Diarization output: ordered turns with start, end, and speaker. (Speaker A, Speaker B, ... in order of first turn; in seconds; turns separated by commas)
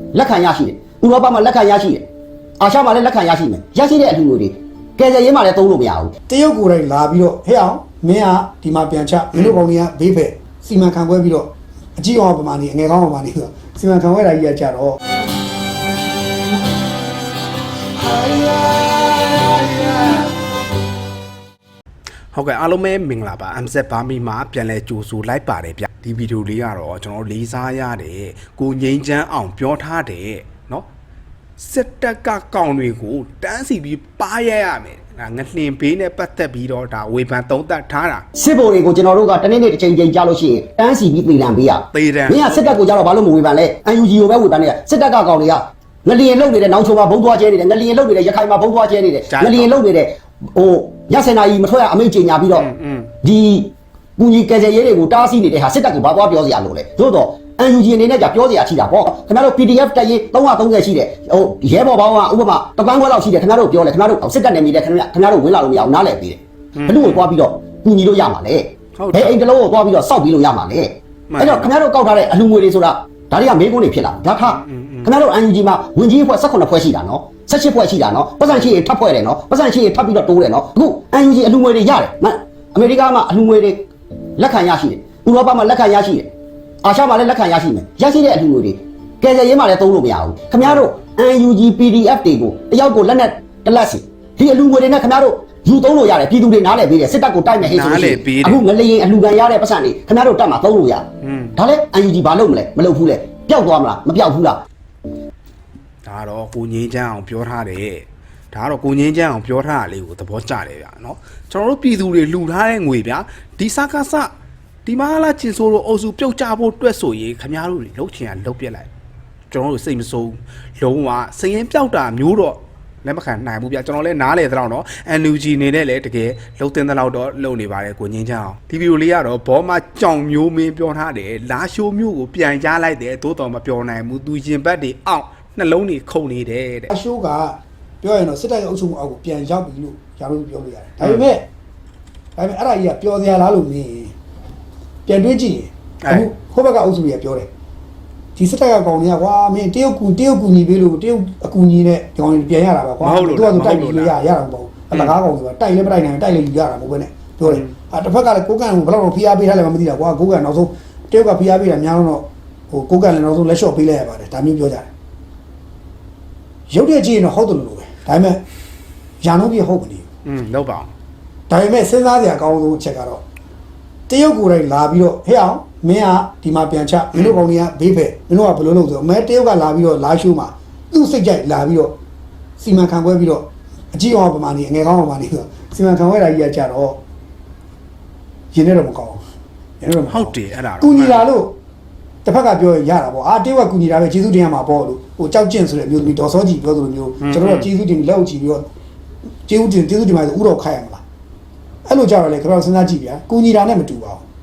Speaker A: 0.1-2.0, Speaker A: 2.6-6.1, Speaker B: 6.3-15.0, Speaker C: 18.0-20.3, Speaker C: 22.3-30.9, Speaker C: 31.6-38.3, Speaker A: 38.4-52.7, Speaker C: 41.9-42.8, Speaker C: 49.3-49.8, Speaker C: 52.5-53.1, Speaker A: 53.2-83.8, Speaker C: 66.8-67.3, Speaker C: 69.0-69.4, Speaker C: 71.3-71.7, Speaker C: 74.4-75.1, Speaker A: 84.4-86.3, Speaker A: 86.8-104.6, Speaker C: 90.6-90.9, Speaker C: 97.6-98.6, Speaker C: 101.2-101.6, Speaker C: 106.0-114.3, Speaker C: 114.9-118.9, Speaker C: 119.5-136.9, Speaker B: 136.9-141.4, Speaker C: 141.0-141.3, Speaker B: 142.4-144.1, Speaker B: 145.1-147.5, Speaker B: 148.4-164.9, Speaker C: 153.0-154.2, Speaker C: 157.4-157.7, Speaker B: 166.7-168.4, Speaker B: 169.2-170.1, Speaker C: 170.2-170.9, Speaker B: 171.5-173.2, Speaker B: 174.1-181.9, Speaker C: 177.1-177.4, Speaker B: 182.6-187.0, Speaker B: 188.5-189.2, Speaker B: 189.8-191.5, Speaker C: 190.1-191.3, Speaker B: 192.2-198.7, Speaker C: 197.2-197.7, Speaker B: 199.5-201.0, Speaker B: 201.9-204.2